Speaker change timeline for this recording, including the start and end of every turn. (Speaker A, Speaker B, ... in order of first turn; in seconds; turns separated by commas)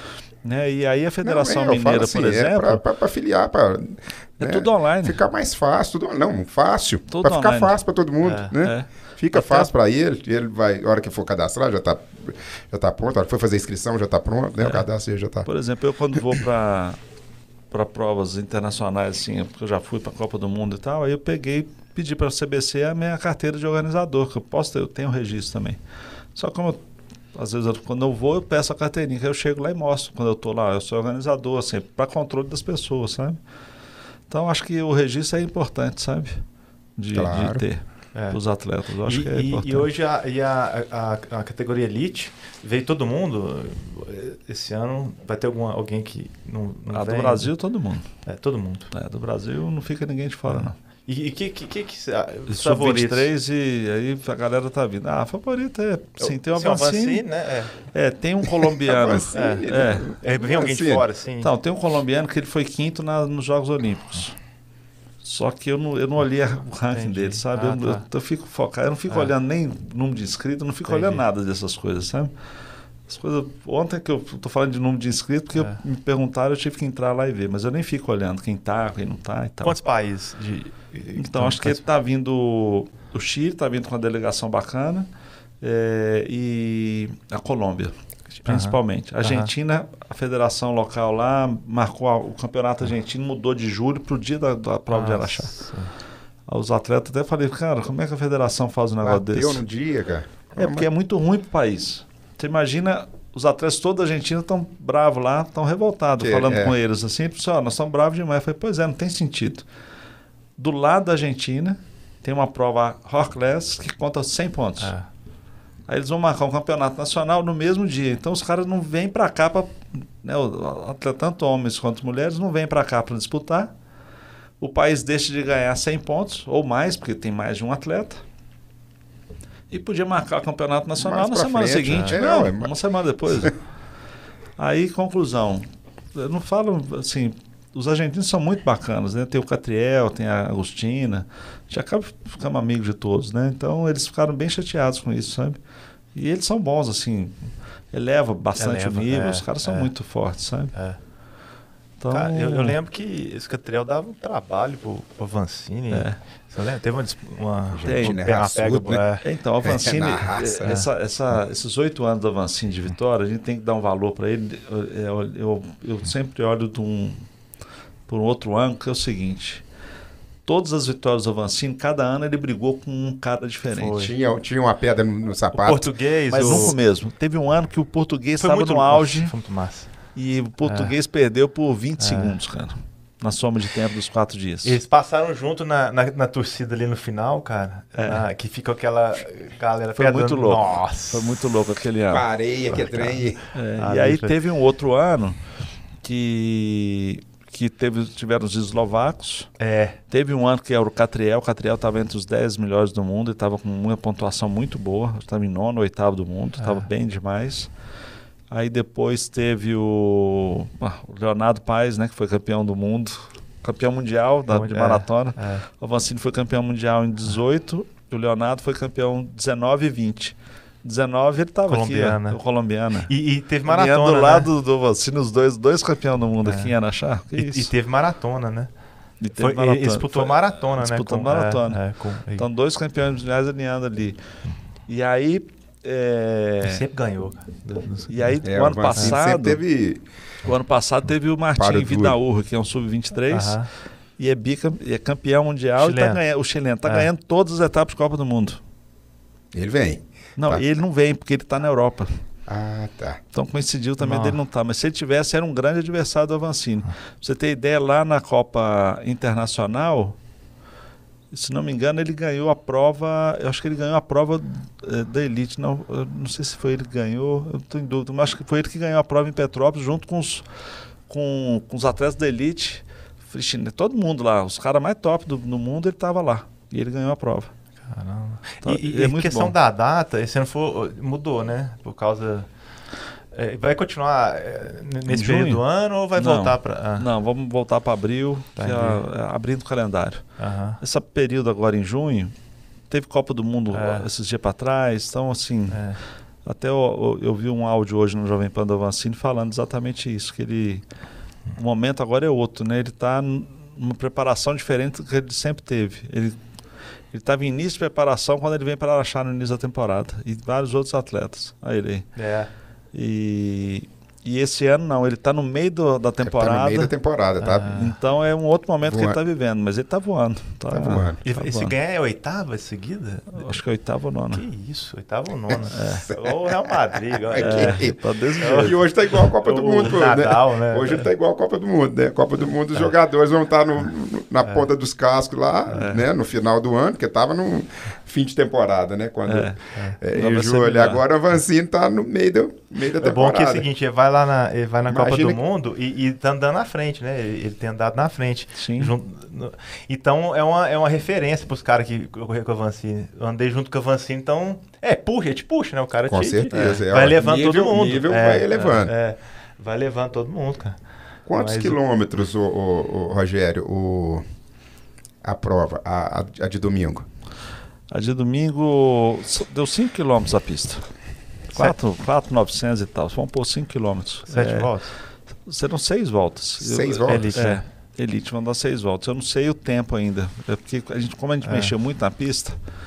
Speaker A: 0.4-2.8, Speaker B: 1.2-15.5, Speaker A: 4.4-5.2, Speaker A: 7.1-7.8, Speaker C: 8.2-8.5, Speaker A: 8.6-9.7, Speaker A: 15.4-17.0, Speaker A: 17.7-25.8, Speaker A: 26.3-26.8, Speaker A: 27.3-33.4, Speaker A: 34.3-36.4, Speaker A: 37.0-39.9, Speaker B: 37.1-37.6, Speaker C: 39.0-47.5, Speaker A: 46.9-48.1, Speaker C: 48.2-48.9, Speaker A: 48.9-50.7, Speaker C: 50.5-53.3, Speaker A: 52.5-57.2, Speaker C: 56.2-57.7, Speaker A: 57.9-60.1, Speaker B: 58.7-61.0, Speaker C: 59.3-59.7, Speaker C: 60.2-61.5, Speaker A: 61.4-64.3, Speaker A: 65.2-72.3, Speaker C: 66.9-68.0, Speaker C: 70.9-71.2, Speaker A: 73.1-79.8, Speaker C: 79.6-81.8, Speaker A: 81.2-85.1, Speaker A: 85.6-95.5, Speaker C: 88.4-89.5, Speaker C: 94.9-95.9, Speaker A: 96.5-99.6, Speaker B: 99.0-100.9, Speaker A: 100.5-109.6, Speaker B: 106.2-106.7, Speaker A: 110.6-114.9, Speaker C: 114.8-115.1, Speaker A: 115.9-123.7, Speaker A: 124.6-128.2, Speaker A: 129.7-133.5, Speaker B: 131.0-132.7, Speaker C: 131.9-132.2, Speaker A: 134.6-145.6, Speaker A: 146.1-147.3, Speaker A: 147.9-150.7, Speaker C: 148.6-149.9, Speaker A: 152.0-152.8, Speaker C: 152.1-159.2, Speaker A: 155.9-156.2, Speaker B: 157.7-159.0, Speaker A: 157.8-158.3, Speaker A: 159.2-167.2, Speaker B: 159.6-160.8, Speaker A: 168.1-169.6, Speaker A: 170.4-174.1, Speaker C: 173.7-174.1, Speaker B: 174.0-176.7, Speaker C: 175.5-176.7, Speaker A: 176.3-179.3, Speaker C: 178.4-179.9, Speaker A: 180.1-184.8, Speaker C: 180.6-180.9, Speaker C: 182.0-182.3, Speaker C: 184.6-191.3, Speaker A: 188.0-188.2, Speaker A: 189.9-192.2, Speaker B: 192.1-193.4, Speaker C: 192.7-193.2, Speaker A: 193.5-195.4, Speaker C: 193.8-194.3, Speaker A: 196.0-199.5, Speaker C: 199.6-200.0, Speaker A: 200.1-207.7, Speaker C: 206.6-206.8, Speaker A: 208.5-223.1, Speaker C: 214.5-215.6, Speaker C: 221.7-222.4, Speaker C: 223.1-224.5, Speaker A: 223.7-227.7, Speaker C: 226.4-226.7, Speaker C: 227.3-228.7, Speaker A: 229.2-231.8, Speaker C: 229.3-232.4, Speaker A: 232.4-234.2, Speaker A: 234.9-236.8, Speaker C: 236.6-238.4, Speaker A: 238.1-239.6, Speaker B: 238.4-240.0, Speaker A: 240.4-243.6, Speaker B: 241.6-242.2, Speaker C: 243.3-243.7, Speaker A: 244.2-248.6, Speaker C: 245.8-246.2, Speaker B: 249.5-250.6, Speaker A: 250.4-252.1, Speaker B: 252.5-253.2, Speaker A: 253.3-260.1, Speaker C: 254.0-254.4, Speaker A: 261.3-270.4, Speaker A: 271.1-277.5, Speaker C: 277.9-282.5, Speaker A: 278.6-279.5, Speaker C: 283.3-287.1, Speaker A: 285.1-285.6, Speaker A: 286.1-290.2, Speaker C: 288.6-289.0, Speaker C: 290.4-290.8, Speaker A: 290.8-292.3, Speaker A: 292.9-295.8, Speaker C: 293.7-294.0, Speaker C: 295.7-296.0, Speaker A: 296.4-300.8, Speaker A: 301.6-306.4, Speaker A: 307.1-312.1, Speaker C: 312.1-312.5, Speaker A: 312.9-316.9, Speaker B: 316.2-317.8, Speaker C: 317.4-317.9, Speaker A: 317.6-321.7, Speaker B: 318.8-319.2, Speaker B: 320.7-321.2, Speaker C: 321.2-323.4, Speaker A: 323.3-324.4, Speaker C: 324.3-327.9, Speaker B: 325.5-326.3, Speaker A: 325.7-326.1, Speaker B: 327.3-343.7, Speaker A: 327.4-328.8, Speaker C: 328.4-331.1, Speaker A: 335.7-336.0, Speaker A: 339.3-339.6, Speaker A: 340.1-341.0, Speaker C: 343.0-360.8, Speaker B: 344.9-345.4, Speaker A: 348.6-348.9, Speaker B: 356.1-358.9, Speaker B: 361.2-364.2, Speaker C: 361.4-361.8, Speaker B: 365.2-367.1, Speaker A: 367.9-370.8, Speaker A: 371.5-374.7, Speaker C: 374.3-374.9, Speaker A: 375.4-382.6, Speaker B: 376.6-377.3, Speaker C: 377.1-377.6, Speaker C: 381.4-381.7